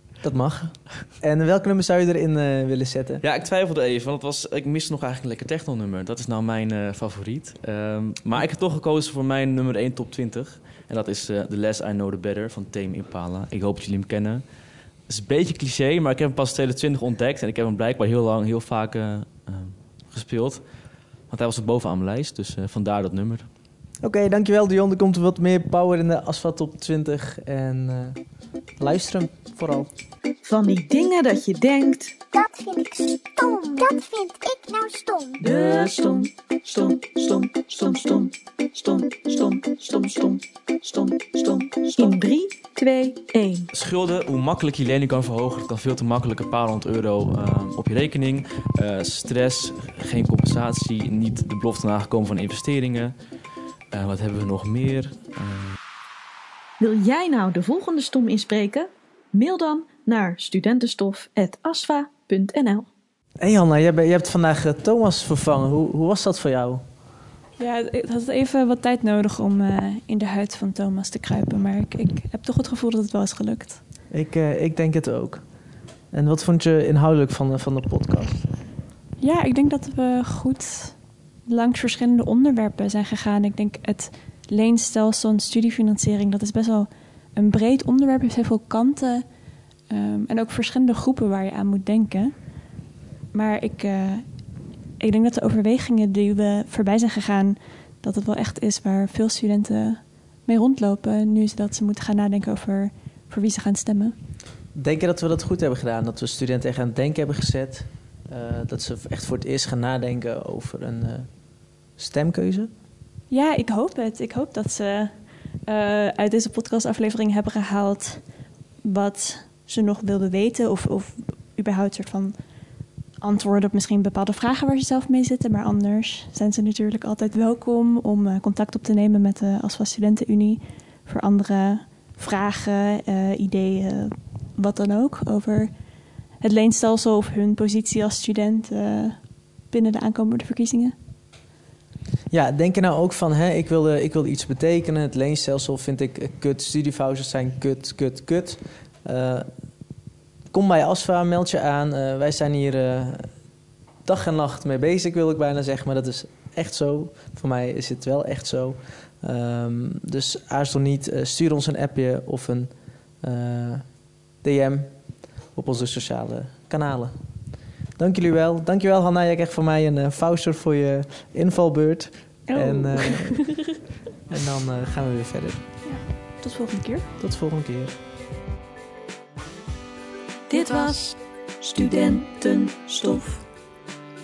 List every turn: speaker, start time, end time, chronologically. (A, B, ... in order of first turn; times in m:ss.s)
0:00.2-0:03.2 A
0:03.2-0:14.4 B
0:15.1-0:20.6 B
0:21.3-0:23.5 B
0:24.0-0:28.2 A
0:28.8-0:29.9 A
0:30.4-0:32.2 C
0:32.3-0:35.4 D
0:35.4-0:43.7 C
0:43.7-0:53.1 B
0:53.9-0:55.8 B
0:56.8-1:02.9 C
1:03.4-1:06.8 A
1:07.6-1:13.8 E
1:14.1-1:15.4 A
1:16.1-1:18.5 A
1:19.2-1:29.2 E
1:29.9-1:32.4 E
1:33.3-1:34.3 E
1:35.0-1:44.1 E
1:44.7-1:51.3 A
1:52.0-1:52.7 A
1:53.3-1:55.1 E
1:55.7-1:58.2 E
1:58.8-2:02.4 E
2:03.2-2:15.7 E
2:16.4-2:20.9 E
2:22.3-2:29.5 A
2:30.5-2:33.3 A
2:34.0-2:43.9 A
2:44.4-2:47.2 A
2:48.0-2:53.7 A
2:52.5-2:53.6 E
2:54.3-2:55.7 A
2:55.8-2:57.1 E
2:57.2-2:58.0 A
3:00.5-3:03.4 C